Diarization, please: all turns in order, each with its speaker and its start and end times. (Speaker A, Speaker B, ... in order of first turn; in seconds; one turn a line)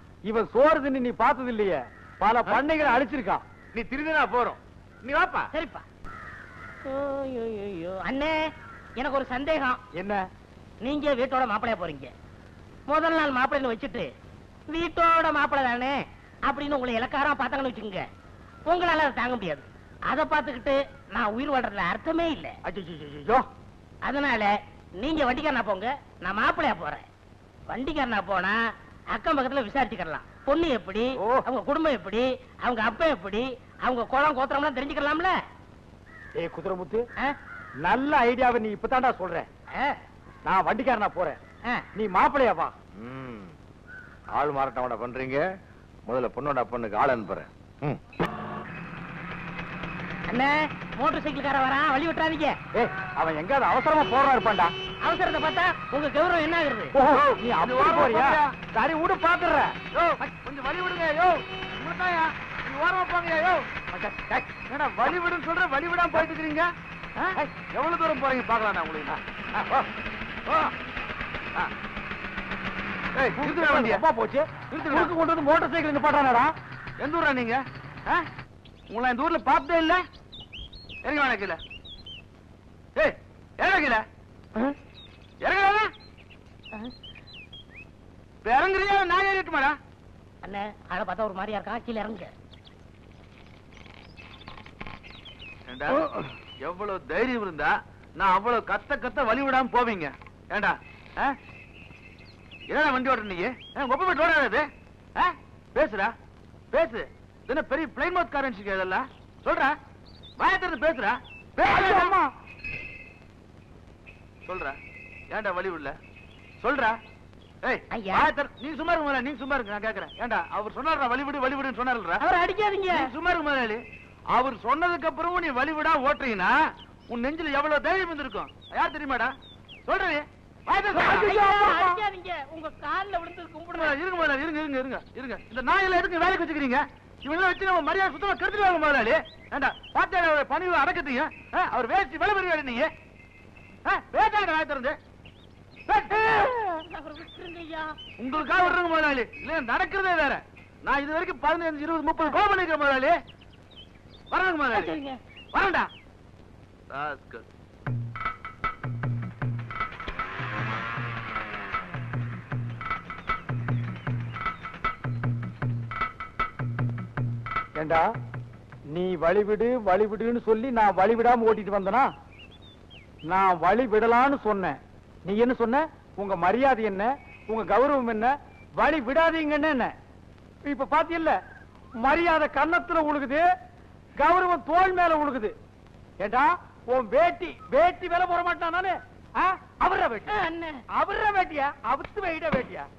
Speaker A: 0.3-3.4
Speaker B: 3.8-5.5
Speaker C: 5.5-5.8
Speaker C: 6.8-8.4
Speaker C: 9.0-9.8
Speaker A: 9.9-10.2
Speaker C: 10.8-12.1
Speaker C: 12.9-14.1
Speaker C: 14.7-18.1
Speaker C: 18.7-22.6
Speaker A: 22.6-23.5
Speaker C: 24.1-27.1
Speaker C: 27.7-28.6
Speaker C: 29.1-35.4
Speaker A: 31.2-31.4
Speaker A: 36.4-37.1
Speaker A: 37.9-39.5
Speaker A: 40.5-41.4
Speaker A: 42.0-42.7
Speaker D: 43.0-43.5
Speaker D: 44.4-45.4
Speaker D: 46.1-48.0
Speaker C: 50.3-52.6
Speaker A: 52.7-54.7
Speaker C: 55.0-56.9
Speaker A: 57.0-59.8
Speaker B: 57.6-58.5
Speaker B: 59.9-63.7
Speaker A: 63.9-65.1
Speaker B: 64.6-69.2
Speaker A: 69.1-69.9
Speaker B: 70.5-70.7
Speaker B: 73.2-74.0
Speaker A: 73.3-76.5
Speaker B: 74.7-75.1
Speaker B: 77.0-78.2
Speaker B: 78.9-80.0
Speaker B: 81.0-81.6
Speaker B: 83.0-84.0
Speaker B: 85.4-85.9
Speaker B: 88.4-89.8
Speaker C: 90.4-92.3
Speaker B: 95.7-101.4
Speaker B: 102.7-106.1
Speaker B: 106.7-109.8
Speaker B: 110.4-112.1
Speaker A: 111.6-112.3
Speaker B: 114.5-114.8
Speaker B: 115.3-116.0
Speaker B: 116.6-117.0
Speaker B: 117.6-122.2
Speaker C: 117.9-118.3
Speaker C: 122.2-123.1
Speaker B: 122.9-123.8
Speaker B: 124.3-126.6
Speaker B: 127.1-129.3
Speaker B: 129.9-131.3
Speaker C: 131.0-133.9
Speaker A: 131.0-132.0
Speaker B: 133.7-142.9
Speaker B: 143.8-145.0
Speaker B: 145.9-146.4
Speaker C: 146.1-147.9
Speaker B: 148.2-153.2
Speaker B: 154.3-155.0
Speaker C: 154.7-155.2
Speaker B: 155.5-155.9
Speaker B: 156.9-157.4
Speaker A: 167.8-168.1
Speaker A: 168.9-172.1
Speaker A: 173.3-179.9
Speaker A: 180.7-181.4
Speaker A: 182.0-183.5
Speaker A: 184.2-185.5
Speaker A: 186.2-190.4
Speaker C: 190.3-190.8
Speaker A: 190.9-192.9